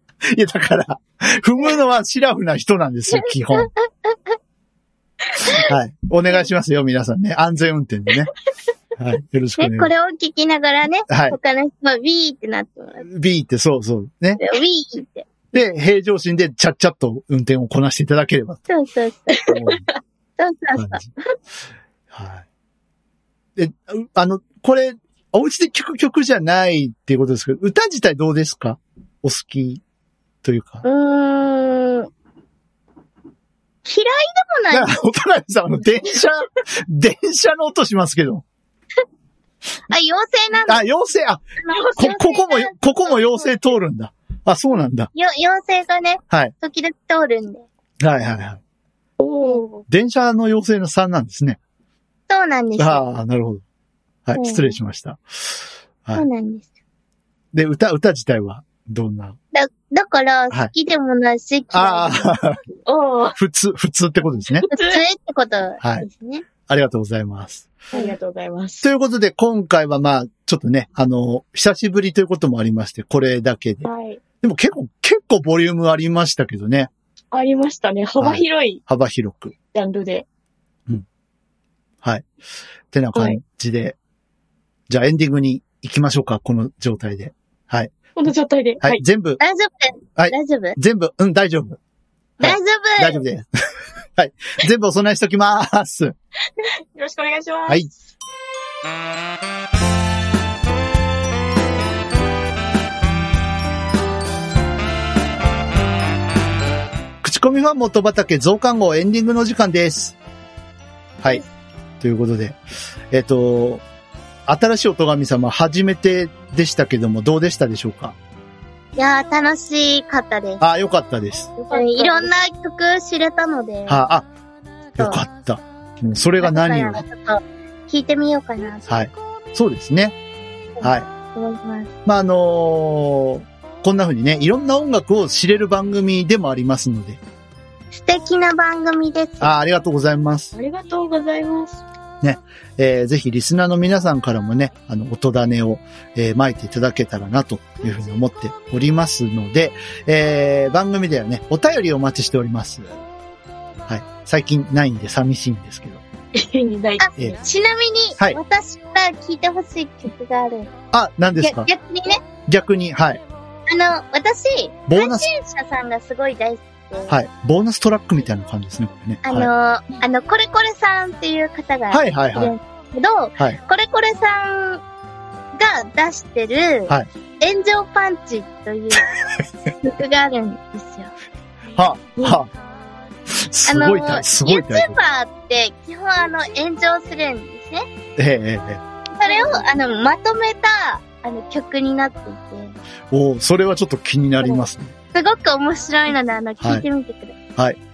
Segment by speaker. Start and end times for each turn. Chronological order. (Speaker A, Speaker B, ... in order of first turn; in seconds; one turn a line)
Speaker A: 0.3-3.7
Speaker B: 3.6-4.2
Speaker A: 5.5-8.3
Speaker A: 9.0-9.9
Speaker B: 9.6-13.1
Speaker A: 11.1-11.4
Speaker A: 13.0-14.4
Speaker B: 14.4-15.3
Speaker A: 15.5-18.6
Speaker B: 18.7-19.6
Speaker A: 19.5-19.8
Speaker C: 19.5-19.8
Speaker B: 20.4-21.0
Speaker A: 20.8-21.1
Speaker A: 22.1-22.4
Speaker A: 23.6-29.8
Speaker A: 30.4-30.8
Speaker B: 30.8-32.1
Speaker B: 33.9-35.0
Speaker A: 34.7-38.5
Speaker B: 39.9-40.9
Speaker A: 40.7-41.4
Speaker B: 41.6-43.5
Speaker A: 42.0-45.1
Speaker B: 45.1-47.7
Speaker A: 48.0-48.6
Speaker C: 49.2-49.8
Speaker A: 49.9-51.6
Speaker B: 52.3-53.0
Speaker A: 52.8-53.6
Speaker A: 54.3-56.3
Speaker B: 54.4-54.8
Speaker B: 56.1-56.7
Speaker A: 57.5-59.4
Speaker B: 59.5-62.3
Speaker A: 61.7-62.6
Speaker C: 62.9-63.4
Speaker A: 63.4-64.7
Speaker C: 64.5-65.0
Speaker B: 64.7-66.5
Speaker A: 65.8-66.1
Speaker A: 66.7-67.7
Speaker C: 67.9-68.9
Speaker A: 68.8-73.9
Speaker C: 73.8-74.2
Speaker A: 74.4-76.9
Speaker C: 77.3-78.8
Speaker A: 78.2-79.5
Speaker C: 79.7-80.2
Speaker A: 82.0-82.3
Speaker A: 82.9-84.0
Speaker C: 83.1-83.4
Speaker A: 84.9-87.9
Speaker C: 88.2-89.0
Speaker A: 88.8-89.4
Speaker B: 89.4-90.8
Speaker A: 90.2-91.8
Speaker A: 92.4-93.5
Speaker B: 92.4-93.2
Speaker A: 94.2-96.2
Speaker C: 96.6-97.8
Speaker A: 107.2-110.2
Speaker A: 112.0-113.8
Speaker A: 114.5-118.2
Speaker B: 119.0-120.6
Speaker A: 120.6-121.5
Speaker C: 121.6-122.3
Speaker B: 121.7-124.1
Speaker A: 123.9-124.3
Speaker A: 125.0-127.0
Speaker B: 125.0-125.2
Speaker B: 126.4-128.9
Speaker A: 128.9-130.2
Speaker B: 130.8-131.9
Speaker A: 130.8-131.1
Speaker A: 132.1-137.2
Speaker B: 137.9-139.5
Speaker A: 139.4-140.5
Speaker C: 140.6-141.8
Speaker A: 142.2-153.0
Speaker A: 153.9-156.0
Speaker C: 156.3-157.1
Speaker B: 157.0-160.7
Speaker A: 160.9-161.7
Speaker B: 161.4-162.2
Speaker A: 162.5-163.2
Speaker B: 163.7-167.2
Speaker A: 164.9-165.3
Speaker A: 167.1-169.5
Speaker B: 169.2-174.8
Speaker A: 171.9-172.5
Speaker B: 175.6-179.1
Speaker B: 179.7-181.1
Speaker A: 181.8-182.5
Speaker C: 182.2-182.4
Speaker A: 183.3-185.0
Speaker B: 183.7-187.9
Speaker A: 188.2-188.8
Speaker B: 189.1-192.8
Speaker C: 189.3-189.6
Speaker A: 193.1-194.9
Speaker B: 195.1-197.4